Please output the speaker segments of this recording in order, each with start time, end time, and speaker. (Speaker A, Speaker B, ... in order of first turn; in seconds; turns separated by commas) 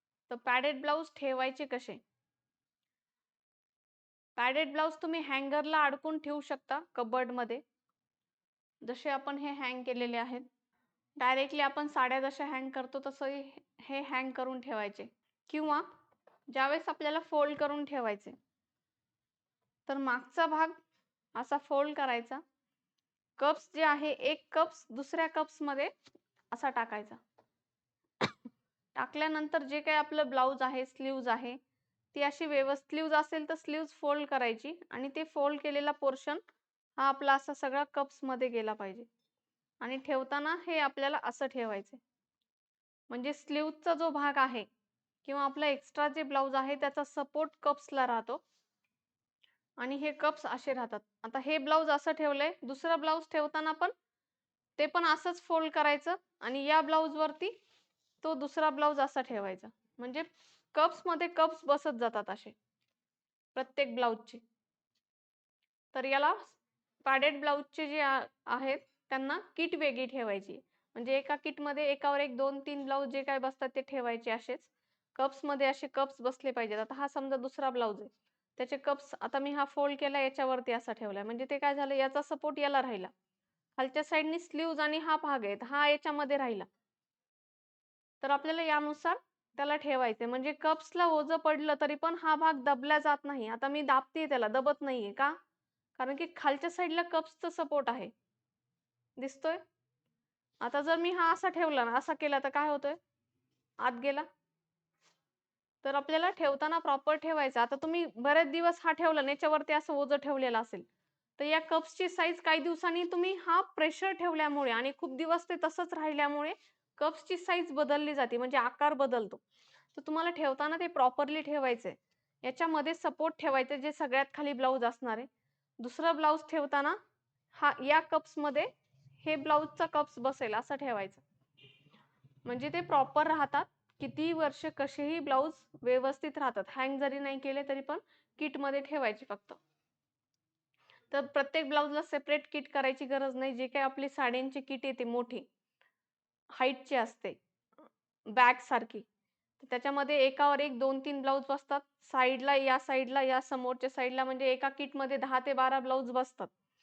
Speaker A: 0.3-2.0, Speaker A: 4.4-7.6, Speaker A: 8.8-10.4, Speaker A: 11.2-15.9, Speaker A: 16.5-18.3, Speaker A: 19.9-20.8, Speaker A: 21.3-22.4, Speaker A: 23.4-25.9, Speaker A: 26.5-27.2, Speaker A: 28.9-31.6, Speaker A: 32.1-36.4, Speaker A: 37.0-39.1, Speaker A: 39.8-42.0, Speaker A: 43.1-44.7, Speaker A: 45.2-48.4, Speaker A: 49.8-53.9, Speaker A: 54.8-57.5, Speaker A: 58.2-62.5, Speaker A: 63.5-64.4, Speaker A: 65.9-83.1, Speaker A: 83.8-86.7, Speaker A: 88.2-95.4, Speaker A: 96.0-98.1, Speaker A: 99.2-99.6, Speaker A: 100.6-103.0, Speaker A: 103.8-104.3, Speaker A: 105.8-110.9, Speaker A: 111.4-119.4, Speaker A: 120.0-125.3, Speaker A: 125.8-127.0, Speaker A: 127.5-128.7, Speaker A: 129.2-131.2, Speaker A: 132.4-139.6, Speaker A: 141.1-145.4, Speaker A: 146.5-147.4, Speaker A: 148.3-149.1, Speaker A: 149.6-156.5